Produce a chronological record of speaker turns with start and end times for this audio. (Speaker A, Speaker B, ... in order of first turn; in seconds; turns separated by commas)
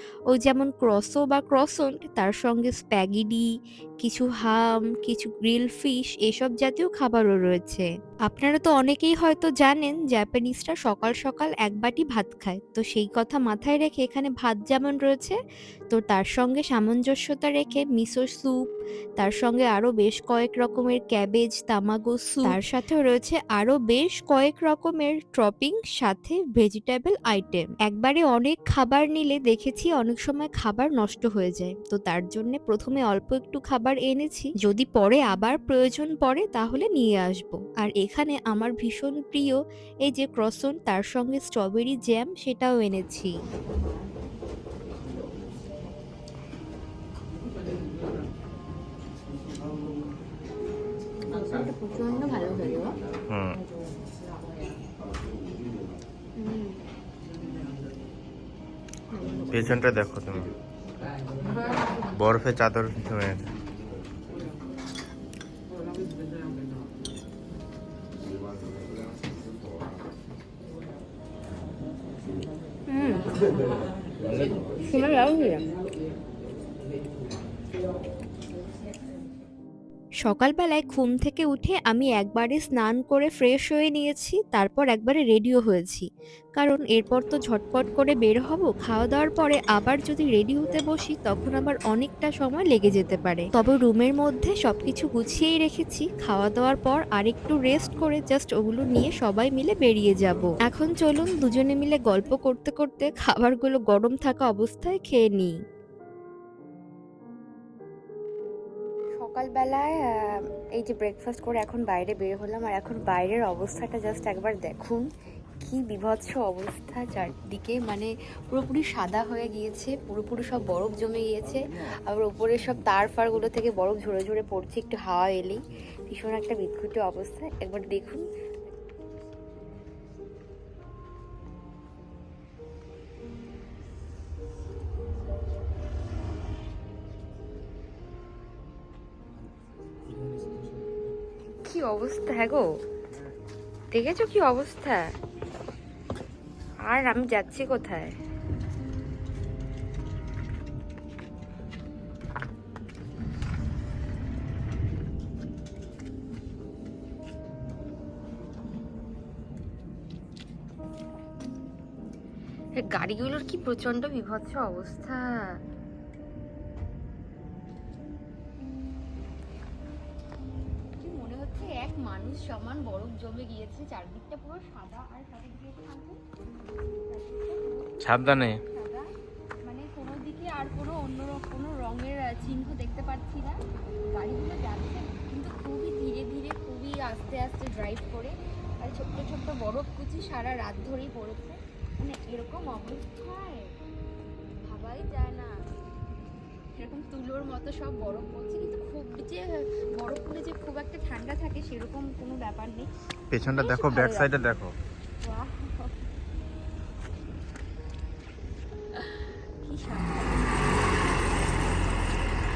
Speaker A: 0.3-3.5, Speaker A: 4.0-15.4, Speaker A: 15.9-18.6, Speaker A: 19.2-43.3, Speaker B: 51.3-53.0, Speaker C: 53.3-53.6, Speaker B: 56.4-56.8, Speaker B: 59.1-59.9, Speaker C: 59.5-60.5, Speaker C: 62.2-63.5, Speaker B: 72.9-73.2, Speaker B: 74.8-75.7, Speaker A: 80.2-105.5, Speaker B: 109.2-115.0, Speaker B: 115.6-128.2, Speaker B: 141.7-142.7, Speaker B: 143.9-145.1, Speaker B: 146.8-148.1, Speaker B: 162.8-165.6, Speaker B: 171.0-176.2, Speaker B: 176.9-179.1, Speaker C: 178.0-178.6, Speaker B: 179.7-183.6, Speaker B: 184.1-193.7, Speaker B: 194.6-195.7, Speaker B: 196.8-202.9, Speaker C: 203.3-204.8, Speaker B: 203.6-204.5, Speaker B: 205.2-205.9, Speaker B: 209.0-210.6